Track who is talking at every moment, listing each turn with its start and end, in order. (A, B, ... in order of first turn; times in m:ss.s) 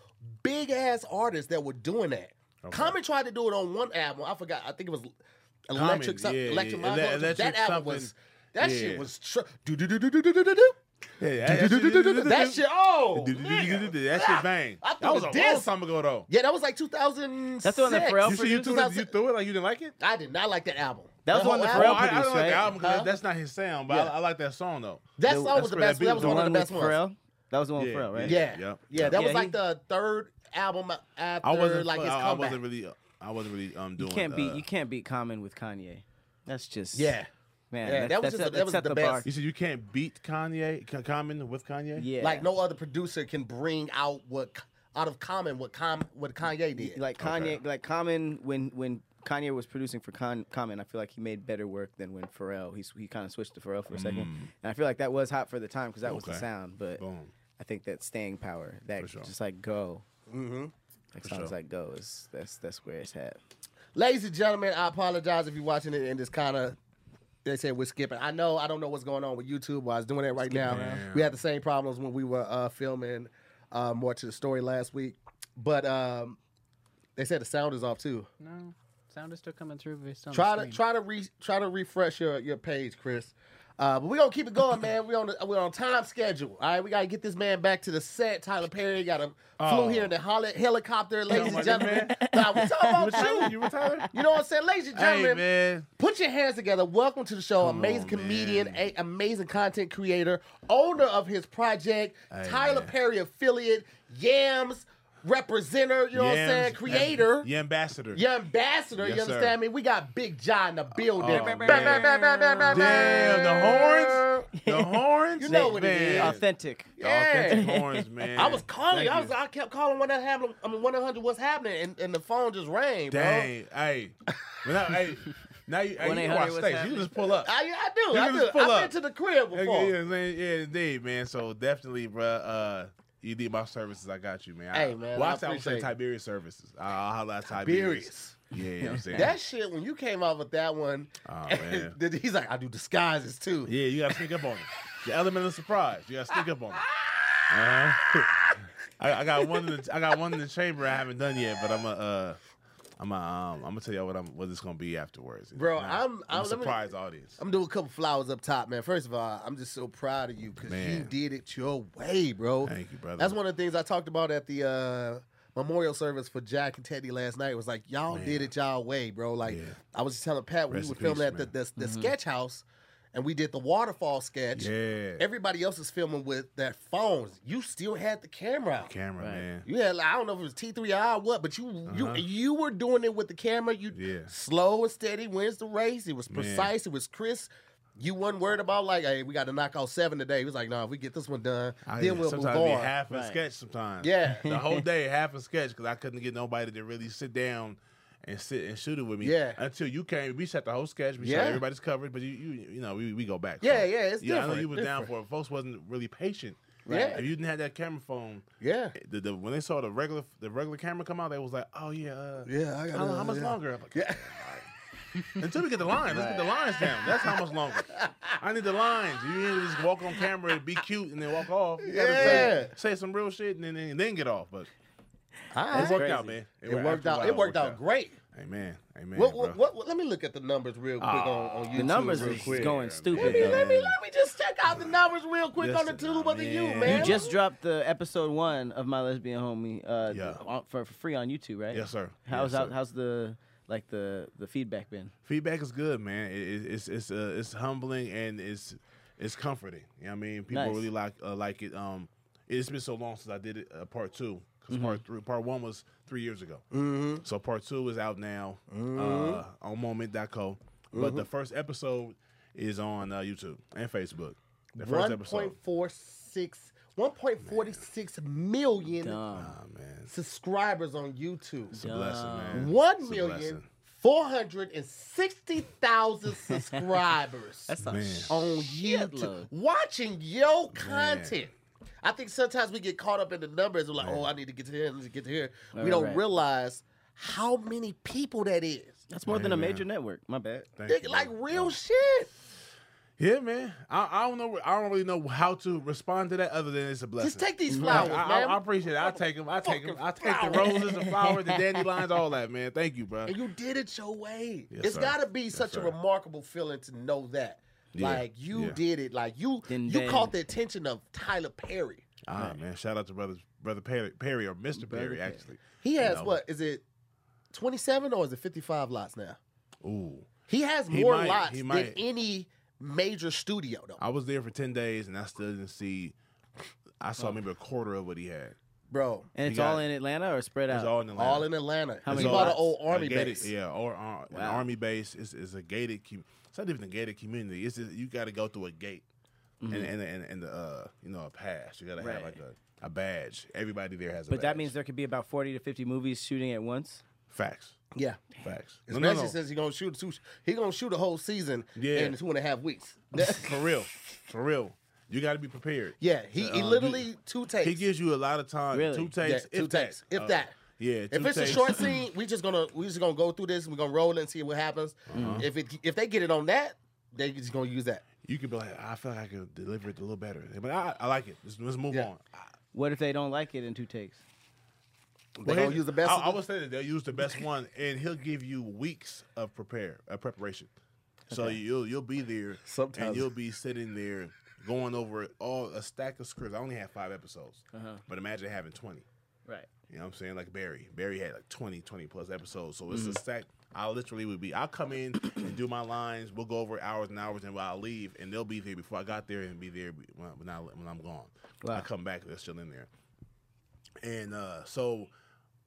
0:00.4-0:05.1 A
0:02.6-0:03.0 B
0:05.7-0:10.8 A
0:05.7-0:09.1 B
0:11.2-0:16.3 B
0:11.4-0:15.7 A
0:16.3-0:19.1 A
0:17.6-0:18.7 C
0:17.9-0:20.0 B
0:20.0-0:22.1 A
0:21.2-0:22.8 C
0:21.6-0:26.6 B
0:22.8-0:23.1 A
0:23.9-0:24.1 A
0:25.2-0:27.0 A
0:25.3-0:28.4 C
0:27.8-0:29.2 B
0:28.2-0:32.6 A
0:29.1-0:29.6 C
0:31.4-0:34.6 B
0:34.0-0:37.2 C
0:36.9-0:37.3 A
0:37.7-0:39.3 C
0:37.8-0:39.3 A
0:39.2-0:42.1 B
0:42.0-0:42.5 C
0:42.2-0:47.0 A
0:46.8-0:57.0 C
0:47.2-0:47.6 B
0:53.9-0:54.5 B
0:56.0-0:57.4 B
0:57.5-1:00.0 C
0:59.0-0:59.3 B
1:00.3-1:00.7 A
1:01.1-1:03.4 C
1:01.2-1:01.5 B
1:04.0-1:06.8 A
1:07.4-1:16.4 A
1:10.5-1:11.0 C
1:10.6-1:11.4 B
1:17.2-1:18.3 A
1:18.4-1:20.8 D
1:20.3-1:33.5 A
1:29.6-1:30.2 B
1:31.3-1:32.3 B
1:31.3-1:34.3 C
1:33.0-1:34.1 B
1:34.1-1:35.5 A
1:34.9-1:35.9 B
1:36.0-1:47.5 A
1:37.6-1:38.8 B
1:42.3-1:43.0 B
1:46.1-1:48.2 B
1:48.1-1:54.5 A
1:49.0-1:49.6 B
1:50.9-1:52.1 B
1:51.2-1:53.4 C
1:52.7-1:56.5 B
1:54.5-1:56.9 C
1:55.4-1:56.4 A
1:57.0-1:57.7 A
1:57.0-1:59.4 B
1:57.5-1:58.6 C
1:58.4-2:03.5 A
2:03.1-2:07.5 B
2:06.0-2:07.1 C
2:07.4-2:10.0 A
2:08.1-2:08.9 B
2:09.5-2:19.4 B
2:14.7-2:15.9 A
2:17.6-2:18.4 A
2:18.8-2:19.4 C
2:19.1-2:23.8 A
2:21.2-2:22.0 B
2:23.6-2:26.8 B
2:26.8-2:28.6 A
2:27.5-2:32.4 B
2:29.4-2:29.7 A
2:33.0-2:37.4 B
2:35.6-2:36.8 A
2:37.4-2:58.9 A
2:40.6-2:41.1 B
2:42.6-2:43.4 B
2:48.1-2:48.5 B
2:49.5-2:49.8 B
2:50.7-2:51.5 B
2:51.8-2:52.1 C
2:54.5-2:55.3 B
2:58.8-2:59.7 B
2:59.2-2:59.5 C
2:59.6-3:12.9 A
3:01.9-3:02.3 B
3:03.9-3:04.3 B
3:06.3-3:06.7 B
3:11.8-3:34.7 B
3:13.1-3:13.4 C
3:14.0-3:14.5 A
3:14.5-3:14.8 C
3:19.2-3:19.6 A
3:21.2-3:21.6 A
3:23.6-3:25.1 A
3:26.9-3:27.2 C
3:26.9-3:27.2 A
3:28.6-3:29.0 A
3:32.4-3:34.4 A
3:35.3-3:44.7 B
3:36.1-3:36.5 C
3:37.3-3:38.4 A
3:41.8-3:42.7 A
3:42.1-3:42.6 C
3:45.5-3:46.1 A
3:45.7-3:46.4 C
3:45.7-3:47.8 B
3:46.6-3:48.2 A
3:48.3-3:49.6 B
3:49.2-3:57.4 A
3:51.0-3:53.9 B
3:51.7-3:53.9 C
3:54.7-3:55.0 B
3:55.6-3:57.3 B
3:56.8-4:05.1 C
4:00.1-4:00.4 B
4:01.7-4:02.8 B
4:05.2-4:16.6 B
4:10.5-4:10.9 C
4:14.7-4:15.0 C
4:16.7-4:17.2 A
4:17.2-4:25.6 B
4:18.7-4:19.4 A
4:20.9-4:21.3 A
4:24.8-4:29.2 A
4:27.4-4:27.8 B
4:29.0-4:29.6 C
4:29.3-4:30.1 B
4:30.1-4:31.8 A
4:31.7-4:33.7 B
4:31.7-4:32.7 C
4:32.5-4:37.7 A
4:37.7-4:39.5 C
4:37.8-4:38.4 B
4:38.3-4:41.5 A
4:40.7-4:41.4 B
4:42.0-4:49.0 A
4:44.0-4:44.3 B
4:45.7-4:46.2 C
4:49.1-4:50.7 C
4:49.2-4:49.9 B
4:50.8-4:51.8 B
4:50.9-4:52.3 A
4:53.2-5:03.4 B
4:57.2-5:00.8 A
4:57.7-4:58.2 C
5:00.6-5:01.6 C
5:03.3-5:12.0 A
5:04.7-5:06.0 B
5:07.9-5:08.8 B
5:09.7-5:10.3 C
5:12.2-5:16.4 B
5:14.7-5:15.4 C
5:15.8-5:16.8 A
5:17.5-5:19.4 A
5:19.8-5:20.3 B
5:20.5-5:24.0 A
5:20.9-5:22.0 B
5:24.0-5:26.2 B
5:27.0-5:28.6 B
5:28.9-5:29.3 A
5:29.4-5:31.0 C
5:29.4-5:29.8 B
5:30.7-5:31.5 B
5:31.2-5:33.5 A
5:32.0-5:32.6 C
5:32.1-5:39.0 B
5:34.3-5:34.7 C
5:39.6-5:39.9 C
5:39.7-5:44.7 B
5:42.0-5:42.4 C
5:44.3-5:47.0 C
5:47.3-5:47.8 B
5:48.0-5:48.2 A
5:48.4-5:49.4 B
5:48.9-5:53.6 A
5:51.8-5:52.2 B
5:53.2-5:57.1 B
5:56.0-5:57.9 A
5:57.6-6:02.0 B
5:58.7-5:59.2 C
5:59.2-6:00.6 A
6:01.1-6:08.0 A
6:05.1-6:05.5 B
6:05.1-6:05.5 C
6:08.2-6:12.5 B
6:12.7-6:14.2 C
6:15.4-6:16.4 A
6:15.4-6:20.7 B
6:21.3-6:29.0 B
6:21.3-6:21.6 C
6:22.6-6:23.3 A
6:27.7-6:28.0 C
6:29.9-6:42.9 B
6:32.9-6:33.2 C
6:44.0-6:45.1 B